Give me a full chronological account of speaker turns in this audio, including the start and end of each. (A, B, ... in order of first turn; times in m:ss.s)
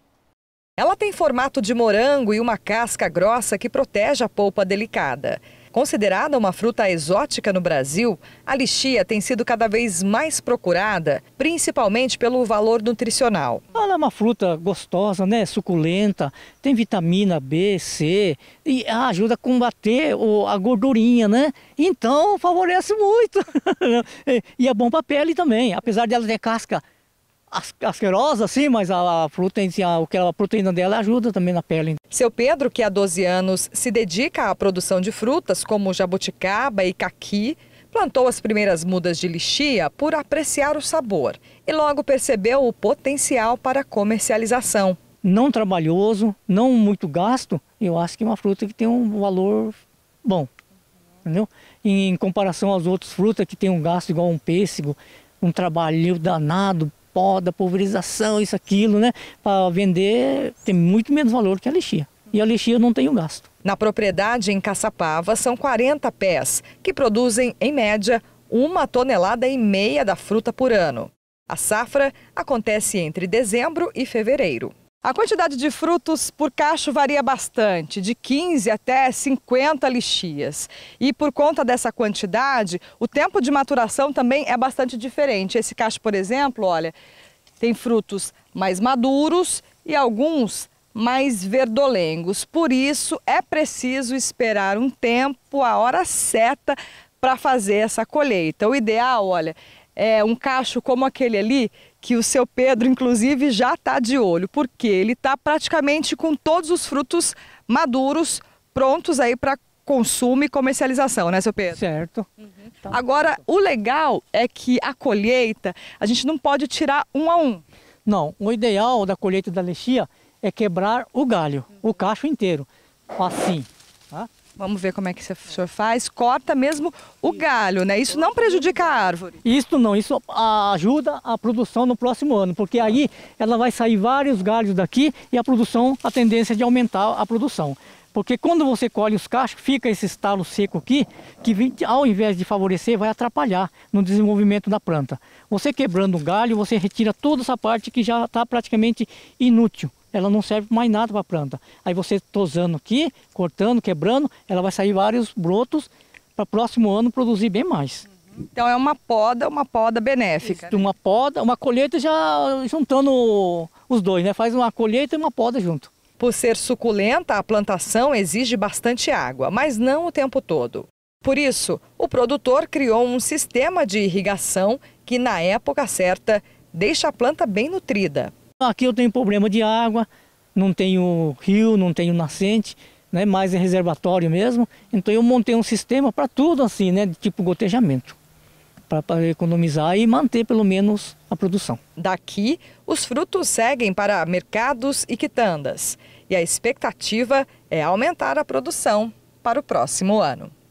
0:00.8-0:13.6 A
0:13.7-0:26.8 B
0:27.5-0:32.0 B
0:32.1-0:45.0 A
0:45.2-0:50.5 B
0:51.2-1:03.5 B
1:03.6-1:26.9 A
1:27.6-1:51.8 A
1:51.7-1:52.3 B
1:52.9-1:57.6 A
1:58.0-2:04.3 B
2:04.6-2:09.4 A
2:09.4-2:38.0 B
2:38.5-2:40.8 A
2:40.4-2:45.9 B
2:46.2-2:58.3 A
2:58.6-3:08.2 B
3:08.9-3:11.8 B
3:12.0-3:20.5 A